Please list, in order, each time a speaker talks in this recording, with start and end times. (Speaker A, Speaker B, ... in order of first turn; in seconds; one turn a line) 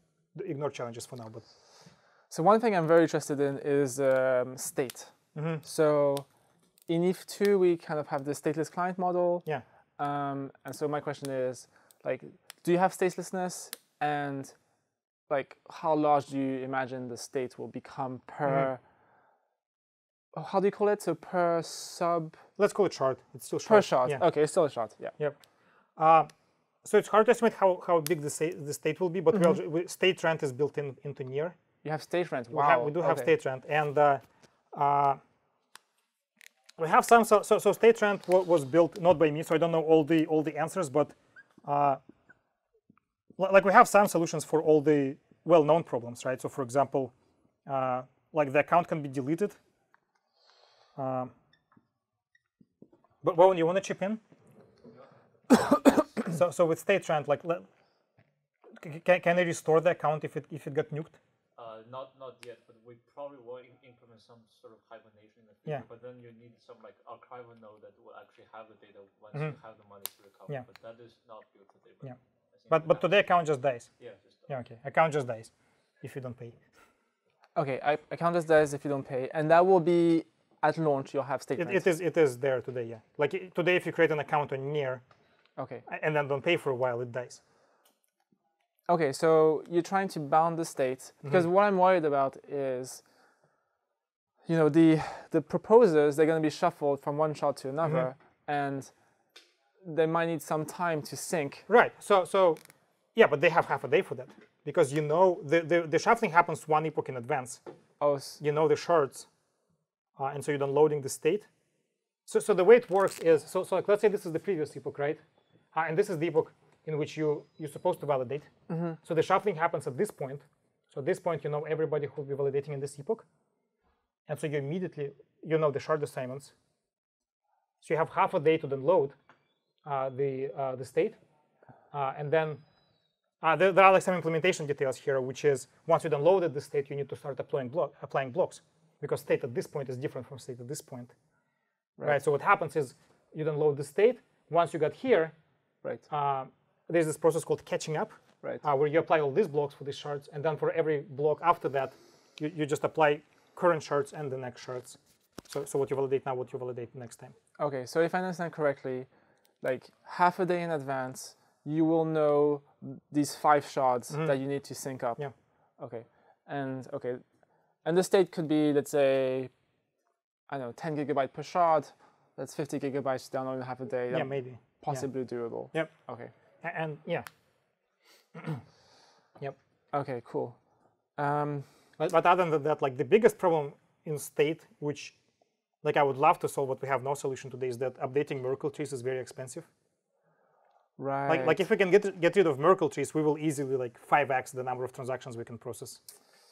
Speaker A: 0.3-1.4
Speaker B: 2.3-6.2
Speaker A: 5.3-5.6
Speaker B: 6.9-9.4
Speaker B: 10.0-14.5
Speaker B: 15.3-18.8
Speaker B: 20.3-22.4
Speaker A: 22.6-24.3
Speaker B: 23.6-25.1
Speaker A: 26.0-26.3
Speaker A: 26.8-31.6
Speaker B: 31.8-33.3
Speaker A: 32.5-35.2
Speaker A: 36.8-42.0
Speaker A: 43.4-47.1
Speaker A: 47.6-49.6
Speaker A: 51.0-51.3
Speaker A: 53.2-54.2
Speaker A: 56.2-57.6
Speaker A: 58.8-61.2
Speaker C: 61.5-73.1
Speaker A: 72.7-73.9
Speaker C: 74.0-74.5
Speaker A: 74.5-75.5
Speaker A: 76.0-76.5
Speaker B: 77.5-81.8
Speaker A: 81.6-85.0
Speaker B: 85.6-85.8
Speaker A: 85.9-87.4
Speaker B: 88.9-93.0
Speaker B: 94.5-98.9
Speaker B: 99.8-101.7
Speaker A: 101.7-102.6
Speaker A: 103.1-107.6
Speaker B: 108.0-108.4
Speaker A: 108.4-109.3
Speaker A: 110.2-111.5
Speaker A: 112.3-115.2
Speaker A: 115.7-118.5
Speaker B: 118.7-119.0
Speaker A: 119.0-123.2
Speaker A: 124.3-126.5
Speaker A: 127.8-129.2
Speaker A: 129.8-131.2
Speaker A: 131.9-132.6
Speaker A: 133.4-141.1
Speaker A: 142.0-145.3
Speaker A: 146.1-157.3
Speaker B: 157.6-159.1
Speaker B: 159.6-165.2
Speaker A: 164.1-164.4
Speaker B: 165.8-167.2
Speaker B: 167.8-169.5
Speaker B: 170.5-176.3
Speaker A: 174.1-175.1
Speaker A: 176.6-177.2
Speaker A: 178.3-178.6
Speaker B: 179.9-180.6
Speaker B: 181.2-181.7
Speaker A: 182.0-185.1
Speaker A: 185.8-189.7
Speaker B: 191.0-191.6
Speaker A: 191.3-196.0